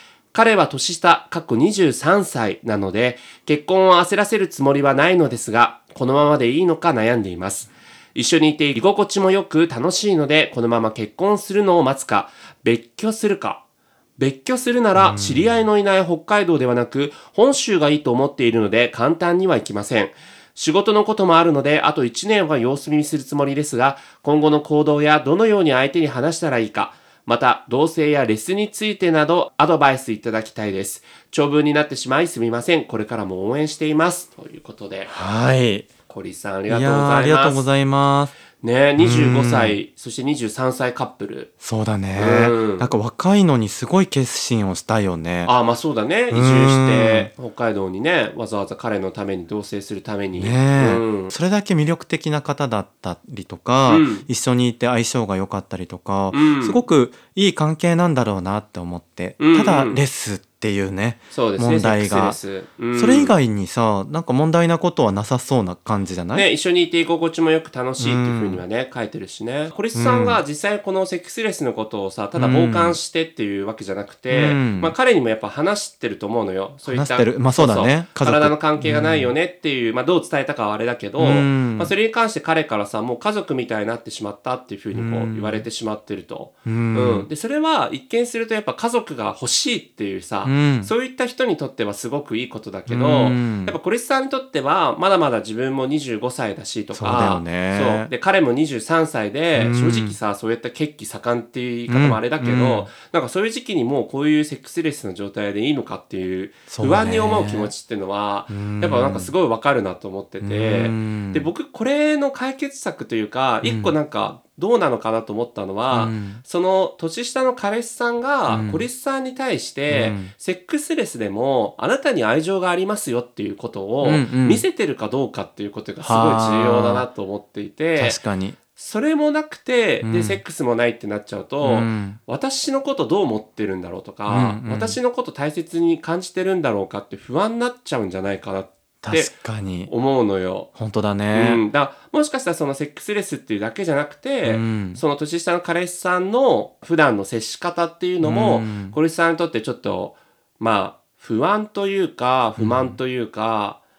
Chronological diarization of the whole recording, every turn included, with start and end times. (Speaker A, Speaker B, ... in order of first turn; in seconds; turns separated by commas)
Speaker A: 0.3-13.6, Speaker A: 14.2-35.1, Speaker B: 15.0-15.6, Speaker B: 35.1-35.9, Speaker A: 36.1-37.6, Speaker B: 36.7-38.3, Speaker A: 38.6-41.5, Speaker B: 39.0-39.8, Speaker B: 41.6-45.5, Speaker A: 42.1-42.9, Speaker A: 45.5-51.3, Speaker B: 46.3-47.3, Speaker B: 50.4-62.4, Speaker A: 53.9-54.3, Speaker A: 56.3-56.8, Speaker A: 59.4-60.0, Speaker A: 61.3-63.3, Speaker B: 62.9-66.5, Speaker A: 66.3-128.2, Speaker B: 68.0-68.6, Speaker B: 69.9-70.4, Speaker B: 72.4-73.0, Speaker B: 74.3-75.0, Speaker B: 76.8-79.3, Speaker B: 81.2-81.9, Speaker B: 84.9-85.7, Speaker B: 86.7-87.3, Speaker B: 90.5-90.9, Speaker B: 92.9-93.8, Speaker B: 96.9-98.1, Speaker B: 99.5-100.2, Speaker B: 101.9-102.9, Speaker B: 106.7-107.7, Speaker B: 108.5-109.3, Speaker B: 110.4-111.5, Speaker B: 113.6-113.9, Speaker B: 115.9-116.4, Speaker B: 118.5-118.8, Speaker B: 119.9-120.3, Speaker B: 124.0-124.6, Speaker B: 126.0-127.1, Speaker B: 128.0-128.6, Speaker A: 128.8-139.3, Speaker B: 130.0-130.4, Speaker B: 131.6-132.2, Speaker B: 134.3-135.0, Speaker B: 139.0-139.9, Speaker A: 139.9-140.7, Speaker B: 140.8-141.6, Speaker A: 141.3-153.8, Speaker B: 144.4-145.0, Speaker B: 148.2-149.0, Speaker B: 152.6-153.0